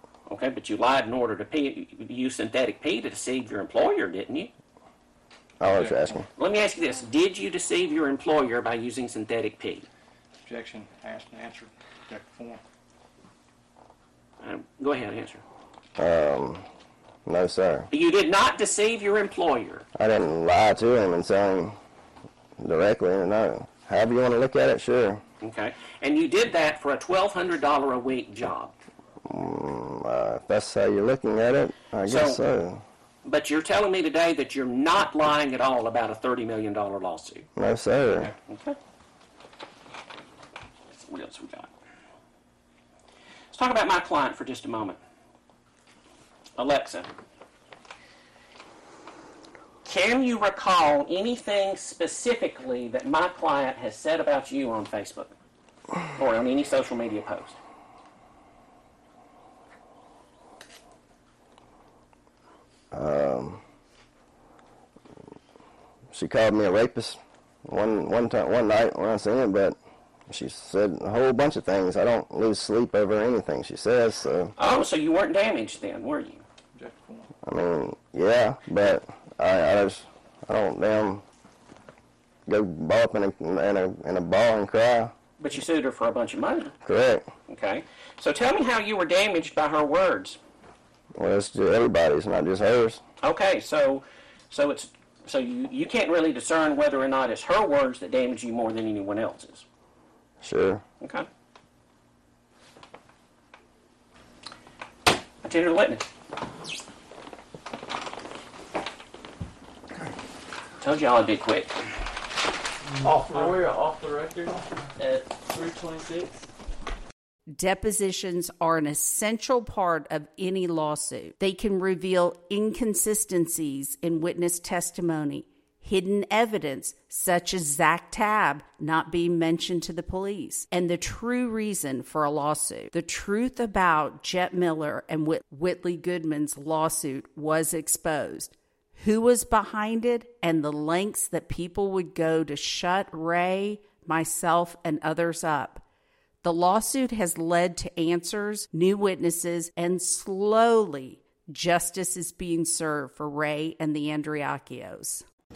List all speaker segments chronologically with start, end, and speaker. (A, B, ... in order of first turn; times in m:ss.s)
0:00.3-0:04.5 A
0:05.6-0:06.3 B
0:05.7-0:06.2 C
0:06.4-0:09.9 A
0:10.4-0:12.6 C
0:14.4-0:15.4 A
0:16.0-0:16.6 B
0:17.2-0:17.9 B
0:17.9-0:19.9 A
0:20.0-0:21.8 B
0:22.6-0:25.2 B
0:25.4-0:28.7 A
0:29.2-0:32.8 B
0:32.0-0:32.4 A
0:33.2-0:37.5 A
0:37.6-0:38.3 B
0:38.2-0:38.8 A
0:40.9-0:41.7 A
0:43.5-0:45.0 A
0:46.6-0:47.1 A
0:49.8-0:55.3 A
0:56.1-0:57.6 A
1:02.9-1:03.6 B
1:06.1-1:09.8 B
1:10.3-1:14.5 B
1:14.6-1:16.4 A
1:16.7-1:17.3 C
1:17.4-1:21.2 B
1:22.5-1:25.1 B
1:25.4-1:26.7 A
1:26.8-1:27.3 B
1:27.5-1:30.4 A
1:31.2-1:33.0 B
1:33.2-1:39.6 A
1:40.4-1:40.8 B
1:41.0-1:41.3 A
1:45.4-1:46.1 A
1:50.8-1:51.8 A
1:53.1-1:56.5 D
1:57.5-2:25.8 E
2:26.4-2:35.2 E